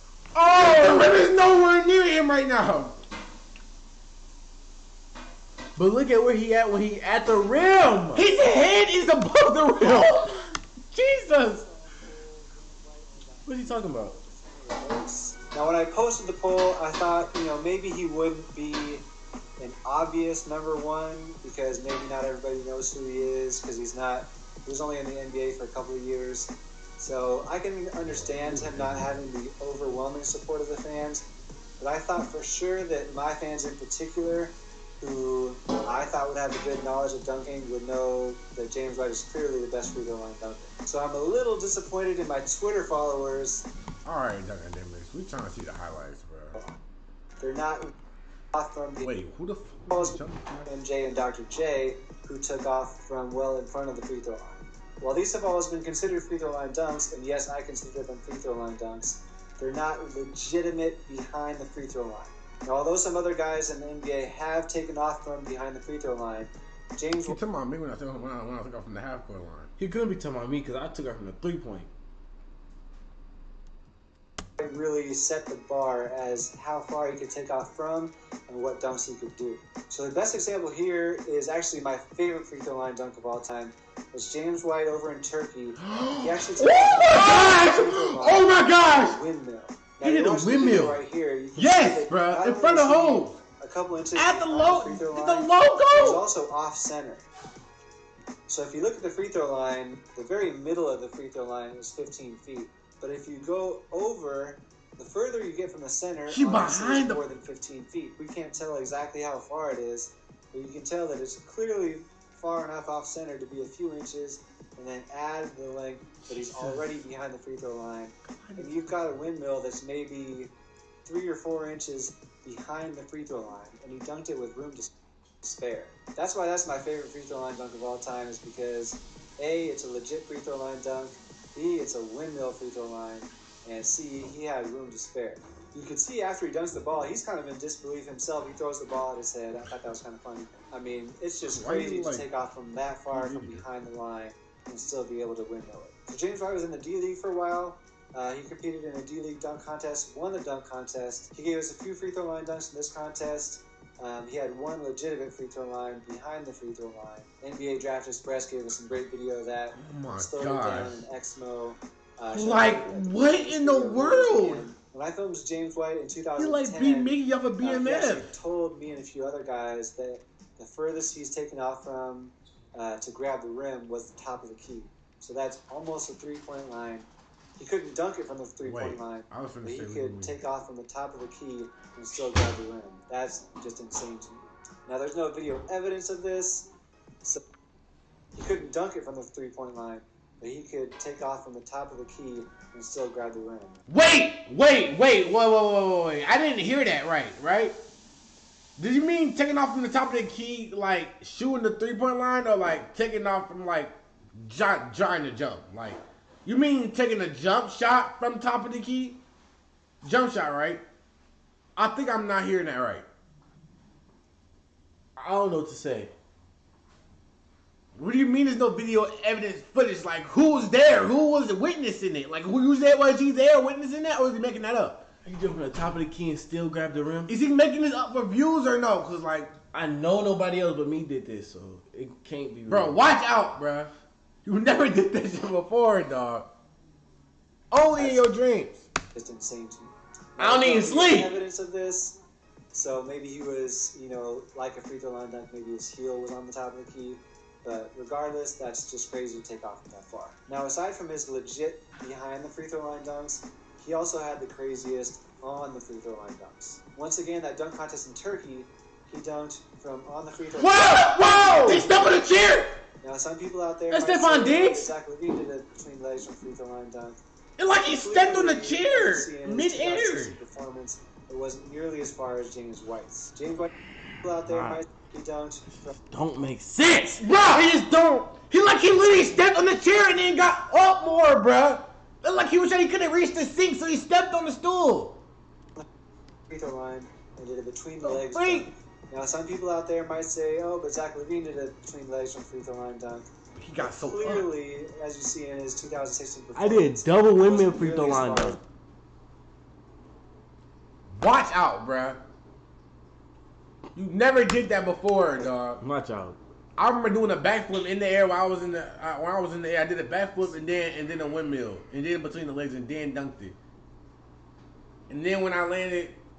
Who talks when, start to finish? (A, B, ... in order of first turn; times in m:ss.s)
0:00.4-0:03.0 A
0:05.8-0:08.3 B
0:08.2-0:11.6 A
0:10.0-0:10.5 C
0:11.2-0:19.1 C
0:13.5-0:14.2 B
0:19.6-0:31.3 C
0:28.4-0:28.9 A
0:31.8-0:43.7 C
0:44.0-0:46.6 A
0:47.4-0:47.9 C
0:48.5-0:49.1 C
0:49.0-0:50.7 A
0:49.9-1:07.4 C
1:07.3-1:09.7 A
1:09.8-1:11.9 B
1:14.6-1:37.2 C
1:25.8-1:29.2 A
1:30.0-1:31.0 B
1:31.6-1:33.4 A
1:34.2-1:36.3 A
1:38.5-2:00.5 C
1:46.3-1:47.3 A
1:58.3-1:58.9 A
2:01.0-3:06.7 C
2:21.4-2:22.3 A
2:23.1-2:23.6 A
2:39.8-2:41.0 A
2:42.3-2:44.7 A
2:46.4-2:48.3 A
2:58.6-3:00.4 A
3:08.4-3:13.8 C
3:13.9-3:17.8 A
3:18.8-3:29.2 A
3:30.0-3:30.8 A
3:31.8-3:33.1 A
3:35.2-3:36.1 B
3:38.0-3:45.1 A
3:45.3-3:47.3 B
3:47.3-3:49.5 A
3:49.7-3:53.0 B
3:52.7-3:53.9 A
3:54.4-3:56.5 A
3:57.7-3:58.8 A
3:58.0-3:58.3 C
3:59.1-4:02.2 C
4:00.4-4:01.4 B
4:02.7-4:22.0 C
4:20.6-4:22.7 A
4:21.1-4:21.9 B
4:23.0-4:27.2 C
4:23.9-4:24.6 B
4:23.9-4:24.9 A
4:27.6-4:30.4 A
4:27.9-4:33.7 C
4:34.2-4:36.0 C
4:34.5-4:34.8 B
4:36.1-4:37.3 B
4:37.2-4:45.2 A
4:46.5-4:58.6 C
4:48.0-4:48.7 A
4:53.6-4:54.5 A
4:56.6-4:58.6 B
5:01.1-5:02.2 A
5:04.0-5:05.8 A
5:05.8-5:06.4 B
5:06.8-5:13.6 A
5:15.1-5:16.2 A